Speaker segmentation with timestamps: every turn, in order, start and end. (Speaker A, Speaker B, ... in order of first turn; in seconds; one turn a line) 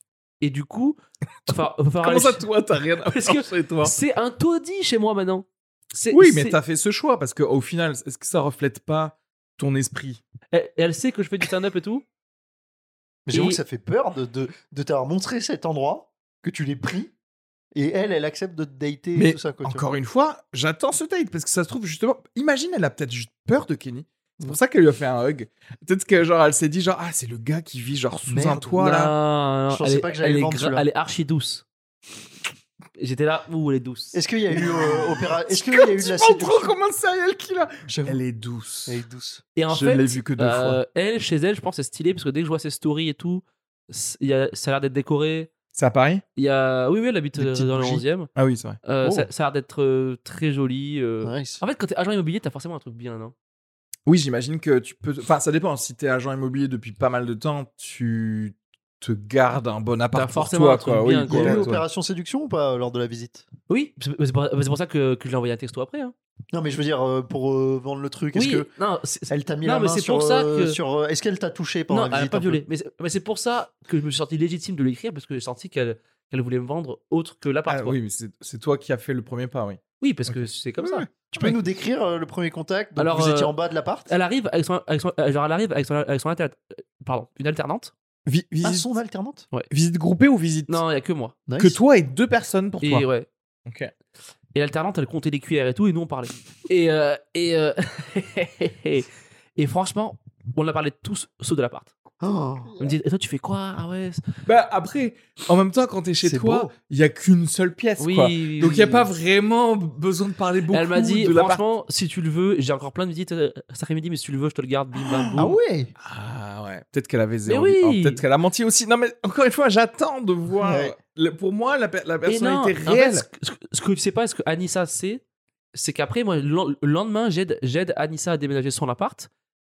Speaker A: 0.4-2.5
Speaker B: 1.5-4.0
Speaker A: 3.0-6.6
Speaker B: 6.1-10.2
Speaker A: 10.5-12.0
Speaker C: 13.3-17.1
Speaker A: 13.3-13.6
Speaker C: 17.7-19.8
Speaker B: 19.1-29.1
Speaker C: 28.3-28.7
Speaker A: 28.8-31.6
Speaker C: 29.7-30.9
Speaker A: 33.0-34.2
Speaker C: 34.1-36.8
Speaker B: 34.5-39.0
Speaker C: 37.9-38.2
Speaker C: 38.9-39.4
Speaker A: 39.6-45.5
Speaker B: 39.7-40.8
Speaker B: 45.8-46.2
Speaker A: 46.4-48.3
Speaker C: 47.4-48.0
Speaker B: 48.4-48.8
Speaker A: 48.8-53.3
Speaker C: 49.0-49.3
Speaker C: 51.2-51.6
Speaker B: 54.1-61.8
Speaker A: 60.1-61.7
Speaker C: 61.3-63.5
Speaker A: 63.7-66.1
Speaker C: 66.5-68.7
Speaker A: 68.3-70.8
Speaker C: 69.3-72.6
Speaker A: 71.9-78.0
Speaker B: 77.7-81.5
Speaker A: 80.0-81.1
Speaker C: 81.3-84.1
Speaker A: 83.0-83.5
Speaker A: 84.1-87.9
Speaker B: 88.3-88.9
Speaker C: 88.6-89.5
Speaker B: 89.7-90.8
Speaker A: 90.7-91.4
Speaker C: 91.5-91.8
Speaker B: 91.6-93.1
Speaker A: 92.8-93.3
Speaker B: 93.7-93.9
Speaker A: 94.5-101.9
Speaker C: 102.2-102.9
Speaker A: 102.8-104.2
Speaker B: 104.5-111.6
Speaker C: 106.2-106.7
Speaker A: 108.0-109.1
Speaker A: 110.7-115.6
Speaker C: 115.4-115.9
Speaker B: 116.0-123.3
Speaker A: 117.5-118.2
Speaker C: 120.6-121.0
Speaker A: 122.3-125.2
Speaker A: 125.7-129.3